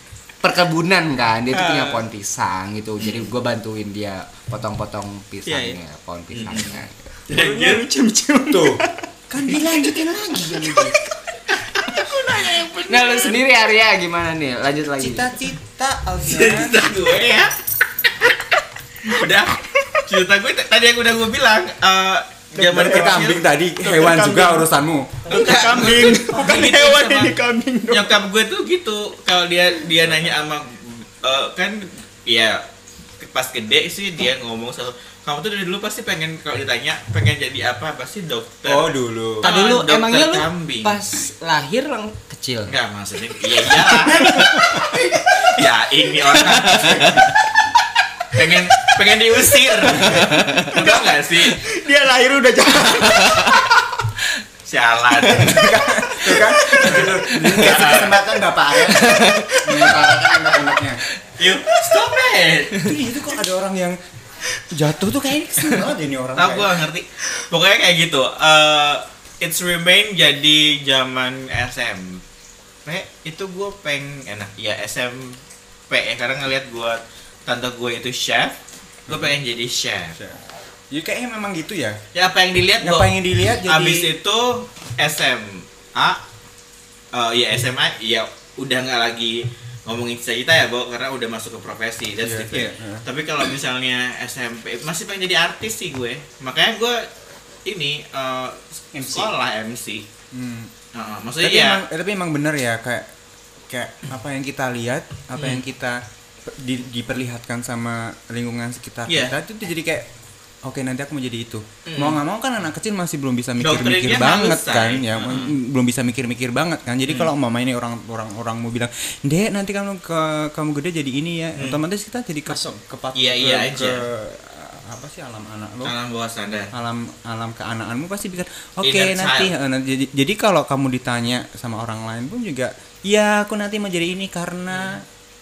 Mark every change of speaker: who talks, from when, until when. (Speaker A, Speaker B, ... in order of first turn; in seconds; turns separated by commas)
Speaker A: 0.4-7.1, Speaker B: 1.5-2.0, Speaker C: 3.0-3.3, Speaker B: 5.5-5.8, Speaker C: 6.3-7.8, Speaker B: 7.3-8.9, Speaker D: 8.5-11.0, Speaker B: 9.5-10.1, Speaker B: 10.6-11.0, Speaker B: 11.7-13.4, Speaker D: 12.2-13.2, Speaker A: 12.9-15.2, Speaker D: 15.0-17.0, Speaker C: 16.2-17.5, Speaker C: 18.1-18.4, Speaker C: 19.0-23.4, Speaker B: 22.6-24.7, Speaker D: 22.7-25.4, Speaker B: 25.3-28.2, Speaker C: 25.3-27.4, Speaker C: 27.9-32.6, Speaker C: 33.2-41.0, Speaker D: 38.6-39.5, Speaker A: 39.4-42.8, Speaker C: 42.6-47.3, Speaker B: 44.0-45.6, Speaker A: 46.5-47.3, Speaker C: 48.3-51.6, Speaker B: 49.6-53.8, Speaker A: 50.1-50.7, Speaker C: 54.6-55.7, Speaker D: 55.4-61.0, Speaker B: 55.9-57.1, Speaker C: 56.8-58.2, Speaker A: 59.0-59.5, Speaker B: 59.3-60.6, Speaker C: 61.4-62.9, Speaker D: 62.8-64.0, Speaker D: 64.7-66.8, Speaker C: 66.3-72.2, Speaker C: 72.8-80.2, Speaker D: 80.1-80.4, Speaker D: 80.9-82.0, Speaker C: 82.1-83.1, Speaker D: 82.8-84.1, Speaker C: 83.6-86.2, Speaker C: 87.1-97.1, Speaker D: 92.2-93.1, Speaker C: 97.6-100.0, Speaker B: 98.9-99.3, Speaker D: 100.3-100.7, Speaker C: 100.9-101.8, Speaker D: 101.4-103.1, Speaker D: 103.7-110.1, Speaker C: 105.4-105.6, Speaker C: 109.1-109.3, Speaker D: 110.6-125.9, Speaker C: 111.8-112.2, Speaker C: 113.6-115.5, Speaker B: 122.5-122.8, Speaker C: 123.1-124.0, Speaker C: 125.8-126.7, Speaker D: 126.7-135.0, Speaker C: 128.8-129.5, Speaker C: 134.7-135.0